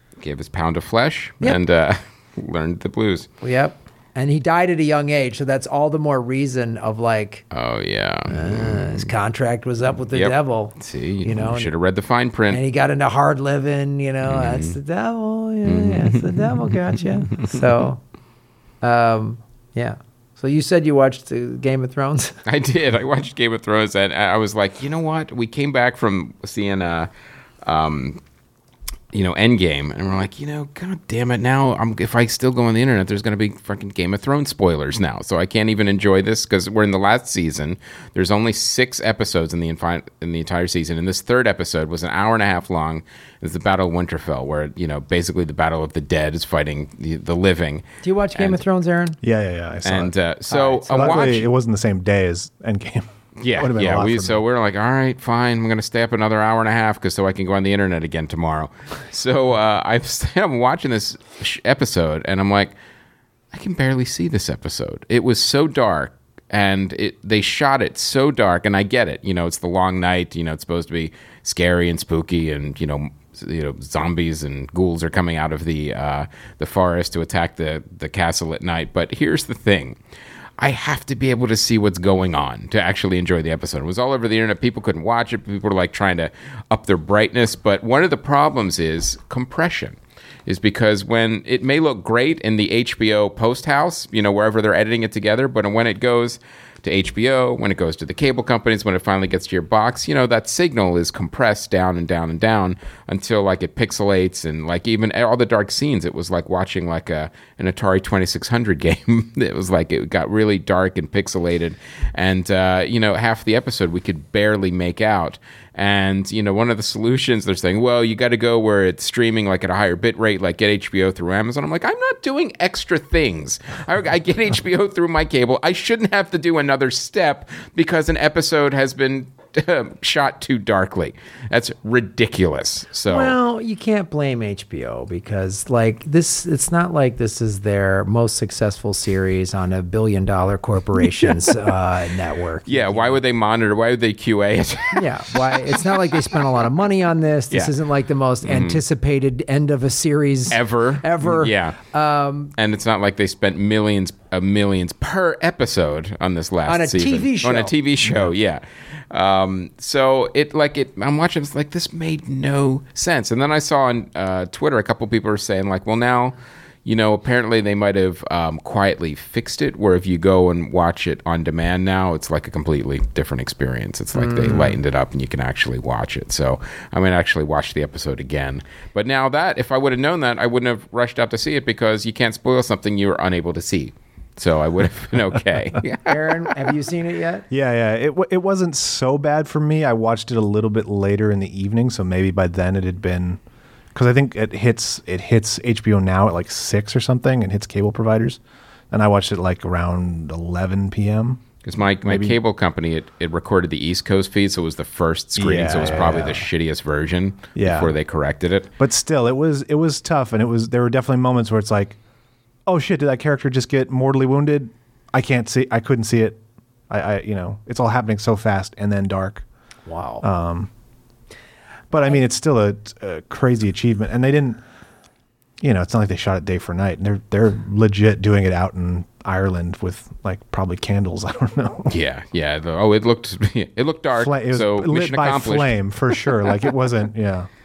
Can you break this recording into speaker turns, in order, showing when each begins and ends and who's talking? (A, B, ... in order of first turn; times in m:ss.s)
0:00.2-0:03.3 A
0:03.4-0:07.4 B
0:07.5-0:09.1 A
0:08.3-0:11.7 B
0:10.1-0:12.6 A
0:12.5-0:18.0 B
0:14.2-0:14.8 A
0:15.6-0:16.8 A
0:17.3-0:17.6 A
0:18.8-0:22.4 B
0:22.4-0:27.1 A
0:27.6-0:28.2 A
0:29.1-0:48.6 A
0:48.0-0:49.2 B
0:49.2-0:50.2 C
0:49.8-0:51.5 A
0:50.5-0:51.3 B
0:50.9-0:54.4 C
0:53.4-1:02.7 A
1:03.5-1:20.0 A
1:20.6-2:13.4 A
2:13.1-2:23.2 B
2:21.2-2:21.5 A
2:22.7-2:26.4 A
2:24.9-2:32.5 B
2:28.4-2:28.8 A
2:30.5-2:31.8 A
2:32.6-3:06.5 A
2:36.7-2:37.7 B
2:54.1-2:54.8 B
3:06.0-3:07.4 B
3:07.5-3:13.4 C
3:13.9-3:18.4 C
3:18.9-3:21.4 C
3:21.6-3:28.7 A
3:22.0-3:22.4 C
3:25.4-3:26.5 C
3:27.6-3:27.9 C
3:28.8-3:32.0 C
3:32.7-3:39.4 C
3:39.9-3:40.2 B
3:40.2-3:40.7 C
3:41.9-3:44.6 C
3:45.6-3:51.9 C
3:51.9-3:56.6 A
3:54.1-3:57.5 C